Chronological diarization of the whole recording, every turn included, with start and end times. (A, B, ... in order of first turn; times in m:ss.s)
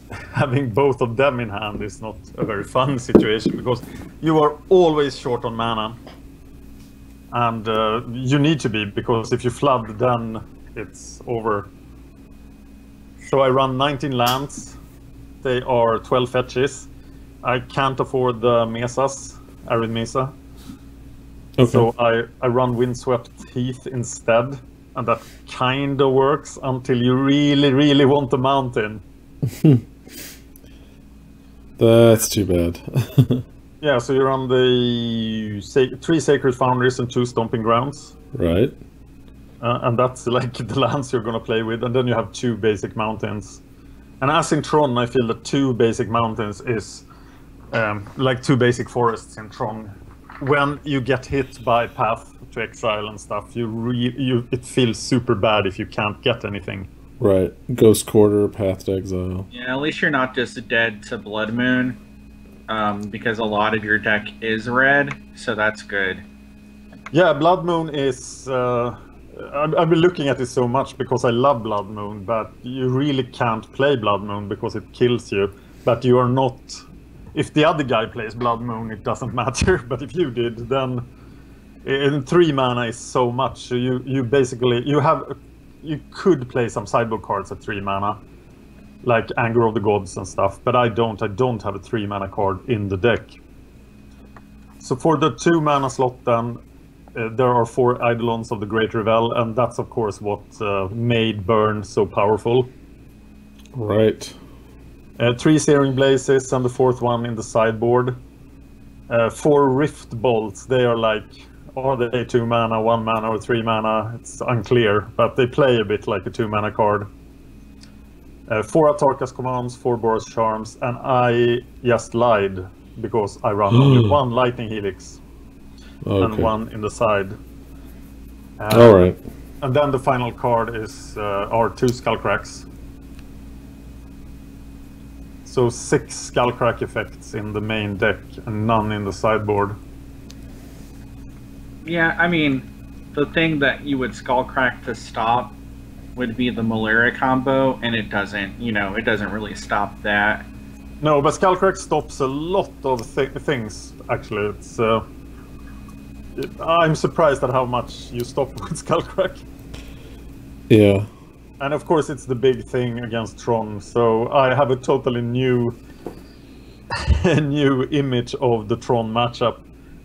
0:00.1-0:06.0 A
0:07.3-0:11.7 A
0:13.2-0:14.8 A
0:15.4-0:16.9 A
0:17.4-0:20.4 A
0:21.6-0:21.9 B
0:21.6-0:29.0 A
0:29.4-0:29.8 B
0:31.8-0:33.4 B
0:33.8-0:38.1 A
0:38.3-0:38.7 B
0:39.6-0:43.6 A
0:44.2-0:47.0 A
0:47.7-0:56.9 A
0:57.2-0:59.5 B
0:59.5-1:02.0 C
1:02.7-1:06.2 C
1:07.1-1:21.0 A
1:21.8-1:28.2 A
1:29.0-1:33.4 A
1:34.8-1:36.6 A
1:37.1-1:42.7 A
1:43.7-1:44.4 B
1:45.2-1:48.2 A
1:49.1-1:57.1 A
1:58.5-2:05.2 A
2:03.7-2:04.2 B
2:06.0-2:06.5 B
2:06.2-2:07.4 A
2:08.6-2:08.9 A
2:08.7-2:09.2 B
2:09.6-2:12.7 A
2:15.4-2:19.8 A
2:21.8-2:25.6 C
2:26.2-2:30.5 C
2:31.0-2:35.1 A
2:36.3-2:39.4 A
2:40.7-2:41.1 B
2:41.6-2:45.8 A
2:46.9-2:49.6 A